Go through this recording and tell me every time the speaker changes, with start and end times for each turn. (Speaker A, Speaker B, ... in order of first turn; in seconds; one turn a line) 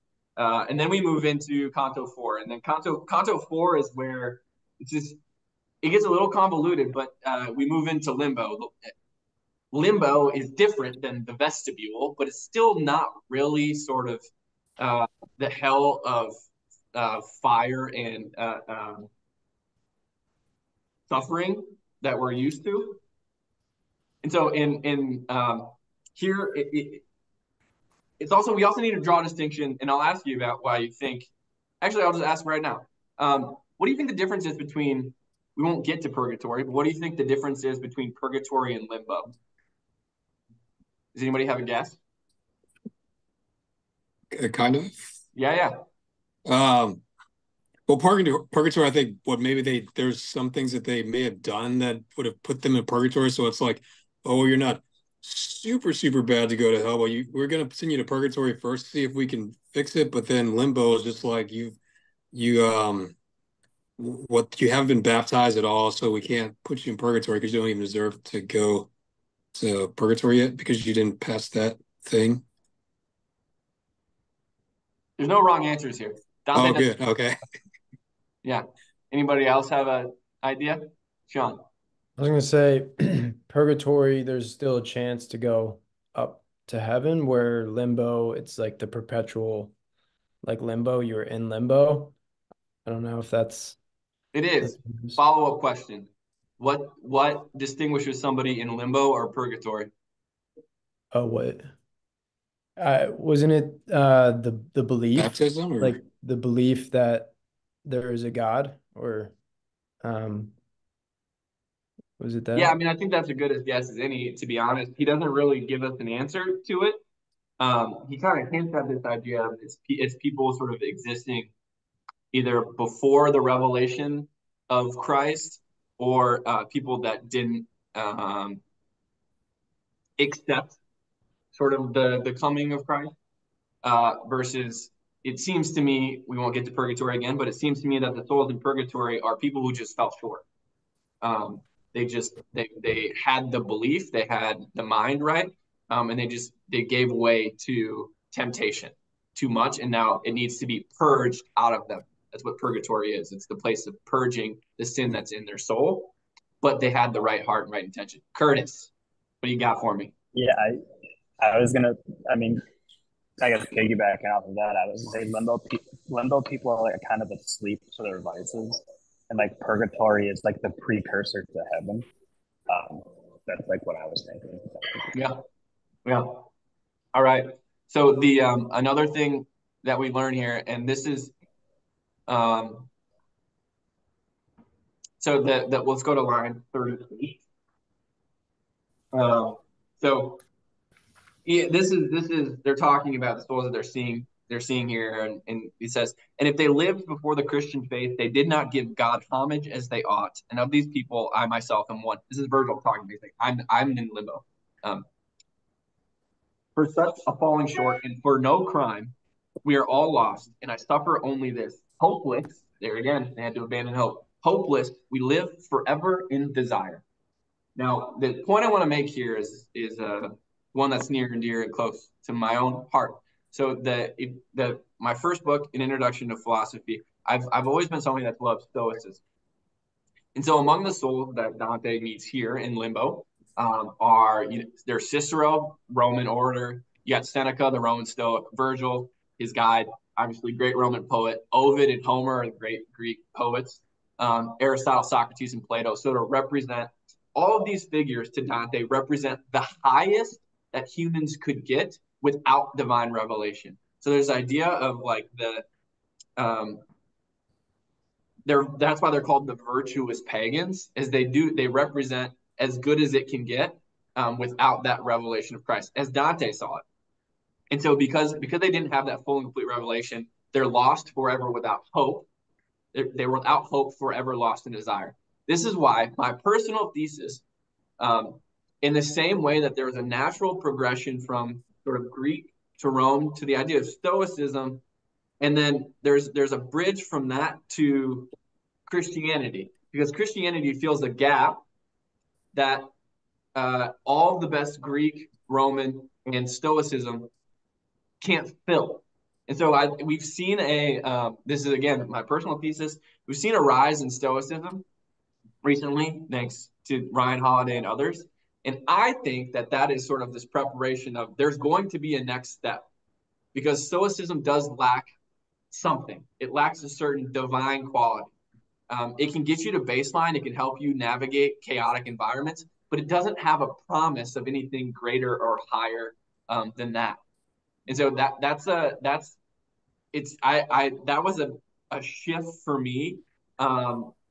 Speaker A: 0.4-5.2
Speaker A: 5.8-8.9
Speaker A: 9.7-14.3
Speaker A: 14.8-16.4
Speaker A: 16.9-19.1
Speaker A: 21.1-23.0
Speaker A: 24.2-27.0
Speaker A: 28.2-31.3
Speaker A: 31.8-39.3
Speaker A: 41.1-42.0
Speaker B: 44.3-44.9
Speaker A: 45.4-45.8
Speaker B: 46.5-47.0
Speaker B: 47.9-61.8
Speaker B: 62.3-63.1
Speaker B: 64.0-68.9
Speaker B: 69.5-72.4
Speaker A: 75.2-76.9
Speaker B: 76.5-77.4
Speaker A: 78.4-81.6
Speaker C: 82.2-89.7
Speaker C: 90.4-92.2
Speaker C: 92.9-93.8
Speaker A: 94.3-99.9
Speaker C: 94.6-95.2
Speaker C: 101.1-101.7
Speaker C: 102.8-107.3
Speaker B: 105.2-106.0
Speaker C: 107.8-109.3
Speaker C: 110.0-110.5
Speaker C: 112.2-112.7
Speaker A: 112.5-117.0
Speaker A: 117.6-121.5
Speaker A: 122.3-128.6
Speaker A: 130.2-130.8
Speaker A: 131.5-133.1
Speaker A: 133.8-140.4
Speaker A: 141.2-158.9
Speaker A: 159.4-160.1
Speaker D: 160.3-160.8
Speaker D: 161.4-162.6
Speaker D: 163.4-172.1
Speaker D: 172.7-175.1
Speaker A: 175.1-175.4
Speaker A: 176.1-176.5
Speaker A: 177.1-181.3
Speaker A: 182.3-182.9
Speaker A: 185.2-187.4
Speaker A: 189.1-190.4
Speaker A: 191.4-205.1
Speaker A: 206.8-217.0
Speaker A: 217.8-229.2
Speaker A: 230.3-255.7
Speaker A: 256.4-256.8
Speaker A: 258.5-266.8
Speaker A: 267.7-272.3
Speaker A: 272.9-277.4
Speaker A: 278.0-284.8
Speaker A: 285.4-288.3
Speaker A: 288.9-291.6
Speaker A: 292.5-292.9
Speaker A: 293.6-297.3
Speaker A: 298.2-304.9
Speaker A: 305.6-312.9
Speaker A: 313.5-315.1
Speaker A: 315.7-318.3
Speaker A: 318.9-327.2
Speaker A: 327.9-329.4
Speaker A: 330.1-334.1